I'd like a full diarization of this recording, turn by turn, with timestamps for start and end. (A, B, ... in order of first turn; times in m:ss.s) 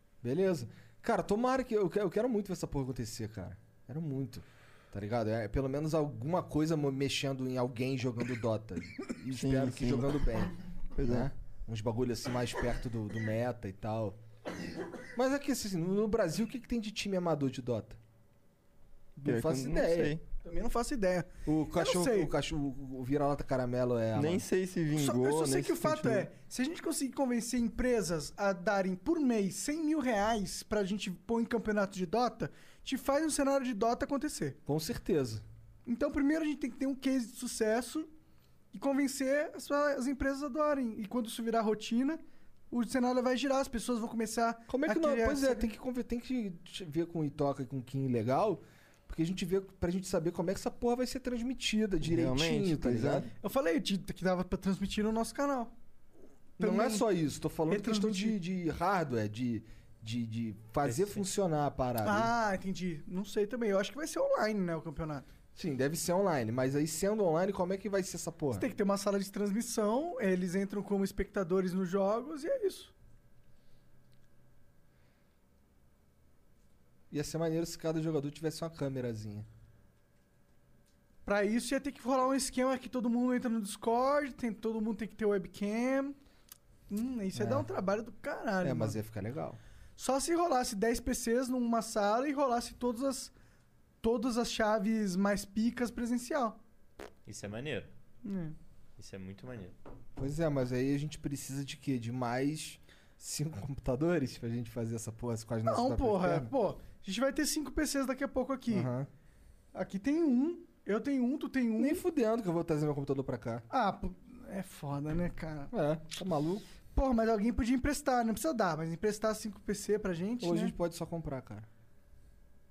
0:00.2-0:14.2 A
0:09.3-0:10.2 B
0:11.0-0:11.3 B
0:15.1-0:18.0 A
0:19.2-0:20.2 A
0:19.2-0:20.2 B
0:20.4-0:22.3 C
0:21.4-0:24.4 A
0:24.2-0:26.3 B
0:24.9-0:34.6 C
0:34.6-0:35.4 A
0:35.8-0:38.1 C
0:38.7-0:42.2 C
0:42.7-0:45.7 C
0:44.7-0:53.3 A
0:52.0-0:53.3 B
0:53.4-0:55.7 C
0:56.6-0:57.0 C
0:56.6-1:02.3 A
0:57.7-0:58.4 C
1:00.8-1:01.2 D
1:02.0-1:05.3 C
1:05.5-1:08.7 A
1:08.5-1:12.9 C
1:17.1-1:19.5 A
1:21.2-1:26.2 C
1:26.9-1:29.0 C
1:27.3-1:27.7 A
1:28.6-1:29.6 A
1:30.0-1:33.3 C
1:34.0-1:36.6 C
1:37.2-1:37.9 D
1:38.2-1:38.6 C
1:39.0-1:39.8 D
1:40.2-1:46.5 A
1:45.6-1:48.9 C
1:48.7-1:49.1 A
1:49.7-1:52.0 C
1:51.8-1:53.6 A
1:53.7-1:55.7 C
1:55.7-1:56.7 A
1:56.9-2:00.7 C
2:00.4-2:01.7 A